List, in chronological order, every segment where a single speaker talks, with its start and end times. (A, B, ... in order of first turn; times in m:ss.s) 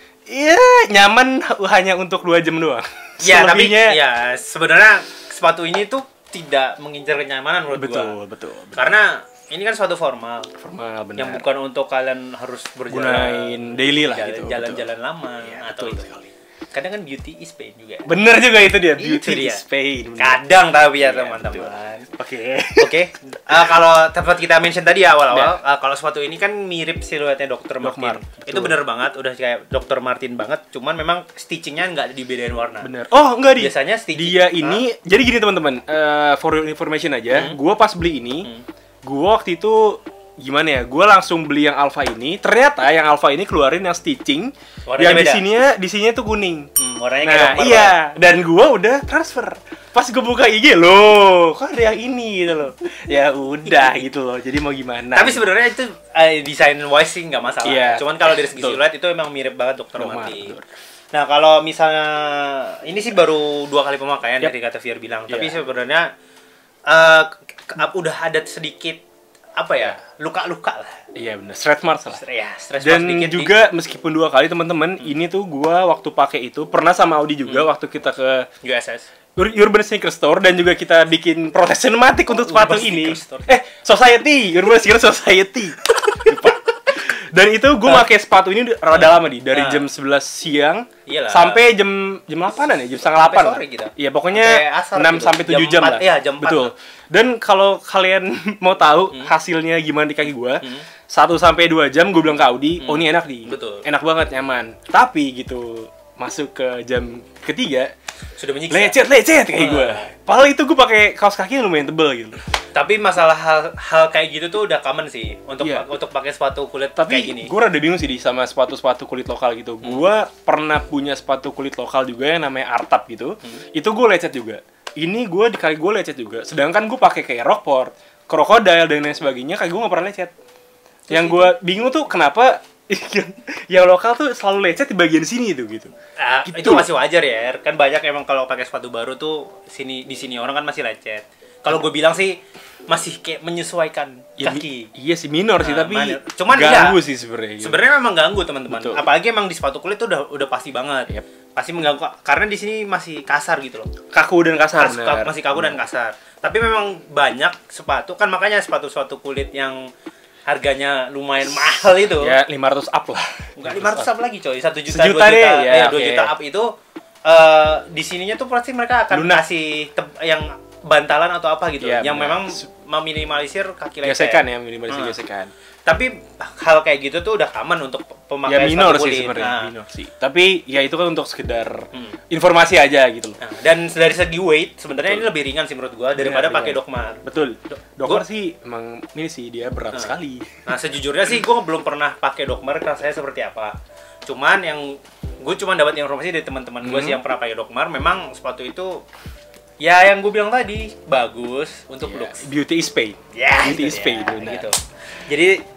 0:00.3-0:04.0 A
0:03.2-0:08.2 B
0:07.8-0:08.9 A
0:08.8-0:10.5 B
0:10.6-0:11.4 A
0:11.2-0:16.1 B
0:12.9-0:14.9 A
0:15.4-0:16.3 A
0:16.7-0:18.1 B
0:18.1-0:20.4 A
0:18.9-0:19.6 B
0:20.2-0:22.1 B
0:21.0-0:23.0 A
0:22.8-0:32.9 B
0:27.8-0:28.8 A
0:32.8-0:38.5 A
0:33.6-0:34.8 B
0:37.3-0:37.6 B
0:39.0-0:46.7 A
0:44.9-0:45.4 B
0:46.8-0:48.0 B
0:47.2-0:55.4 A
0:53.7-0:54.0 B
0:55.1-1:00.5 B
0:57.6-0:58.8 A
1:00.0-1:00.7 A
1:01.1-1:06.1 B
1:05.3-1:05.6 A
1:06.9-1:09.0 B
1:09.6-1:11.0 B
1:11.2-1:12.2 A
1:12.1-1:13.5 B
1:12.8-1:18.5 A
1:18.6-1:19.1 B
1:19.4-1:47.9 A
1:22.3-1:23.6 B
1:28.9-1:29.8 B
1:31.1-1:31.6 B
1:33.1-1:36.7 B
1:40.6-1:40.9 B
1:42.8-1:43.9 B
1:48.4-1:49.0 B
1:48.7-1:52.4 A
1:49.5-1:50.1 B
1:52.7-1:57.5 B
1:57.0-2:10.3 A
2:11.1-2:11.5 B
2:11.1-2:15.9 A
2:16.2-2:22.4 B
2:16.5-2:16.9 A
2:22.9-2:24.9 B
2:24.4-2:27.8 A
2:25.6-2:27.0 B
2:27.6-2:33.9 B
2:28.7-2:29.0 A
2:34.1-2:35.7 A
2:34.8-2:39.8 B
2:40.5-2:42.4 B
2:42.2-2:44.1 A
2:43.6-2:46.7 B
2:44.9-2:46.3 A
2:47.3-2:55.2 B
2:49.1-2:49.4 A
2:51.8-2:52.6 A
2:54.0-2:55.5 A
2:55.8-2:59.7 B
2:58.5-3:03.4 A
3:01.9-3:02.2 B
3:03.4-3:08.2 B
3:06.2-3:10.6 A
3:09.9-3:13.8 B
3:14.3-3:19.0 B
3:16.8-3:17.2 A
3:19.8-3:22.5 B
3:22.0-3:24.7 A
3:23.3-3:25.6 B